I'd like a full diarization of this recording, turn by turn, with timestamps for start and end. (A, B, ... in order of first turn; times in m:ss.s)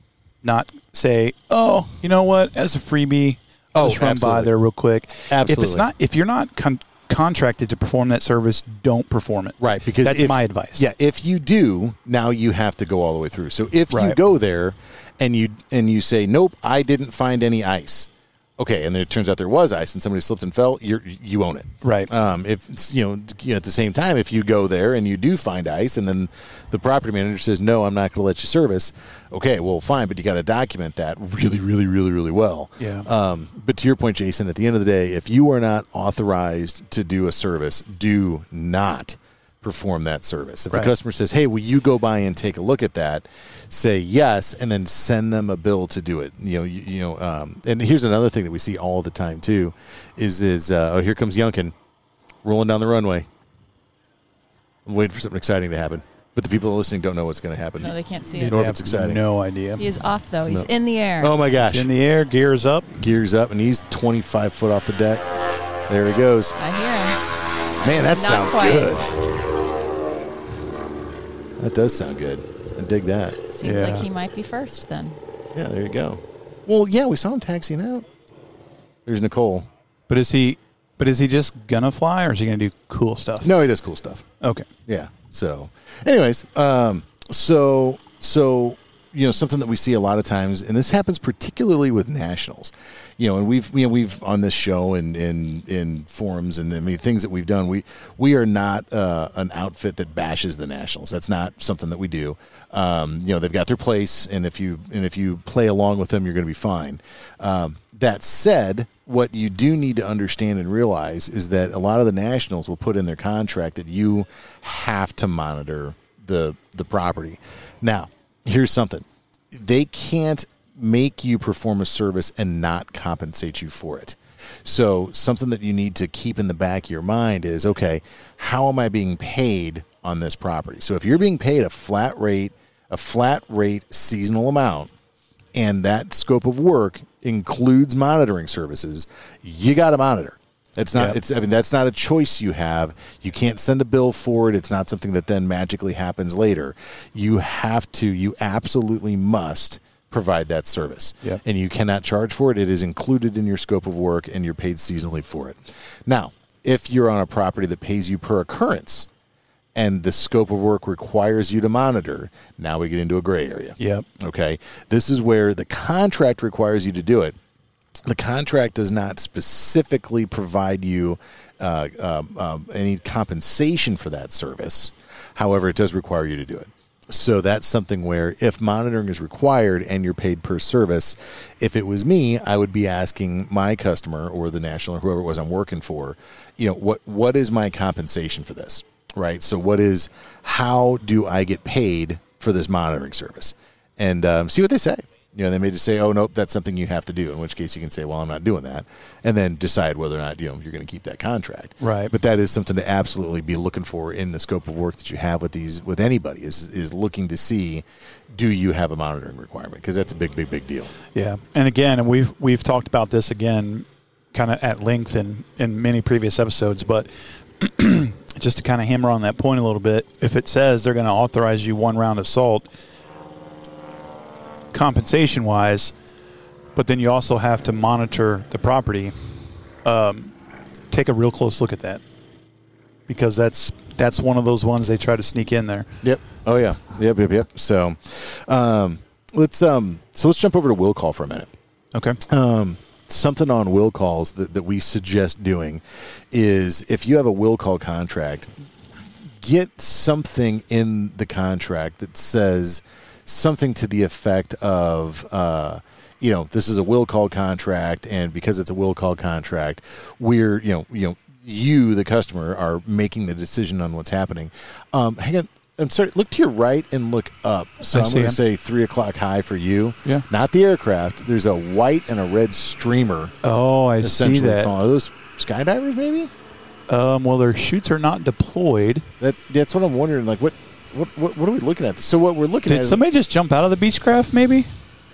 0:00.4-0:10.8 A
0:03.7-0:04.5 B
0:05.3-0:05.9 B
0:09.6-0:51.7 B
0:13.9-0:14.2 A
0:21.8-0:22.1 A
0:32.8-0:33.1 A
0:52.4-0:53.3 B
0:54.8-0:59.2 B
0:57.8-0:58.6 C
0:58.3-0:59.8 A
0:59.8-1:01.4 C
1:01.2-1:01.9 B
1:01.6-1:03.1 A
1:03.0-1:05.2 B
1:05.9-1:06.5 B
1:06.6-1:07.2 C
1:07.8-1:09.0 B
1:07.8-1:09.0 C
1:11.6-1:13.4 B
1:13.5-1:15.2 C
1:13.6-1:14.1 A
1:15.5-1:18.1 B
1:19.0-1:19.7 B
1:20.1-1:23.5 A
1:23.4-1:24.2 B
1:24.4-1:24.7 A
1:24.9-2:14.9 B
2:15.5-2:39.1 B
2:39.7-2:47.3 B
2:43.8-2:44.1 A
2:48.0-3:30.9 B
3:21.8-3:22.1 A
3:31.1-3:42.7 A
3:44.7-3:45.9 A
3:46.7-3:49.1 A
3:49.8-3:50.3 A
3:50.9-3:52.0 A
3:53.1-3:55.9 A
3:56.0-4:01.5 B
4:01.9-4:02.2 A
4:02.2-4:08.5 B
4:09.4-4:33.3 B
4:27.9-4:28.4 A
4:33.4-4:34.7 A
4:34.0-4:36.3 B
4:36.9-4:39.1 A
4:39.2-4:43.0 B
4:42.6-4:44.7 A